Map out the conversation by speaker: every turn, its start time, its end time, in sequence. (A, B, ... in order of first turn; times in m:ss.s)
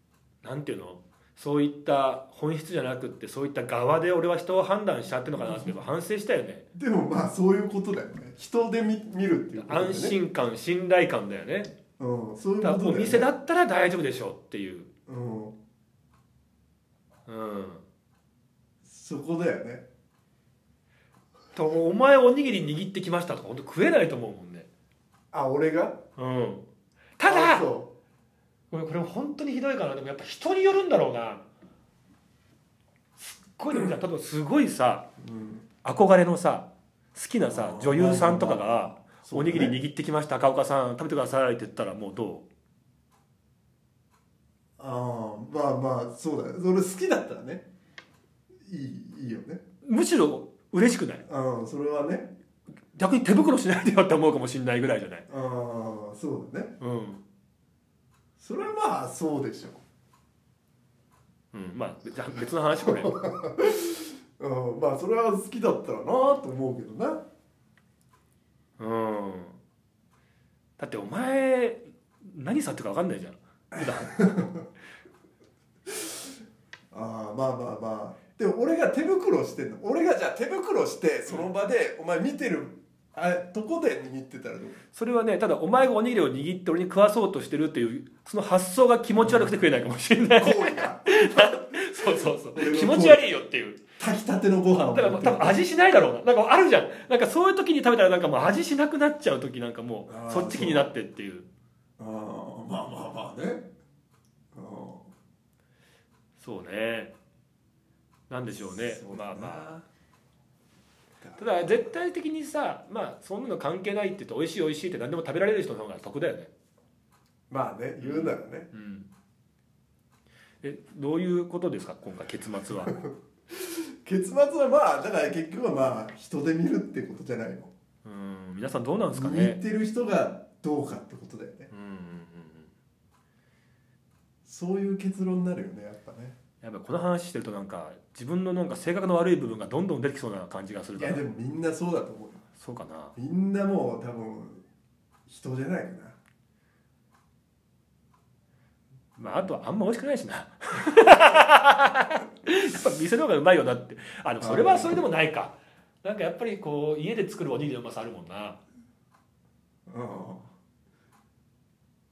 0:00.4-0:06.6 A
0:05.3-0:05.8 B
0:06.7-0:10.2 B
0:09.6-0:11.7 A
0:12.0-0:13.3 B
0:12.6-0:14.9 A
0:15.1-0:15.6 B
0:17.3-0:17.8 A
0:18.8-0:19.9 B
0:21.5-0:24.7 A
0:25.3-0:26.0 B
0:26.2-0:26.6 A
0:27.2-0:27.7 A
0:27.2-0:27.9 B
0:28.7-0:31.4 A
0:33.2-0:35.0 A
0:35.2-0:35.6 B
0:35.8-0:42.5 A
0:37.5-0:39.8 B
0:44.8-0:47.7 B
0:48.6-0:49.6 B
0:49.8-0:51.2 A
0:51.2-0:52.3 B
0:52.9-0:55.2 A
0:55.3-0:56.8 B
0:56.8-0:57.2 A
0:58.4-0:59.8 B
1:01.5-1:03.2 A
1:02.8-1:07.2 B
1:08.8-1:09.6 A
1:10.8-1:14.5 A
1:13.7-1:14.7 B
1:16.9-1:24.8 B
1:24.9-1:33.8 A
1:29.2-1:29.6 B
1:30.4-1:33.4 B
1:34.0-1:35.6 B
1:34.9-1:41.5 A
1:40.1-1:40.9 B
1:42.0-1:43.7 B
1:44.5-1:45.1 B
1:46.4-1:47.1 A
1:48.3-1:49.8 A
1:48.5-1:49.8 B
1:51.2-1:51.9 B
1:51.4-1:56.5 A
1:57.5-1:58.7 B
1:58.0-1:59.1 A
2:00.6-2:02.9 A
2:02.8-2:07.7 B
2:08.0-2:09.6 A
2:09.1-2:11.7 B
2:11.7-2:12.7 A
2:14.4-2:16.4 B
2:16.6-2:21.2 A
2:21.0-2:22.4 B
2:22.6-2:23.1 A
2:23.2-2:24.6 B
2:25.3-2:26.2 B
2:29.2-2:38.6 A
2:34.4-2:35.0 B
2:39.9-2:40.5 B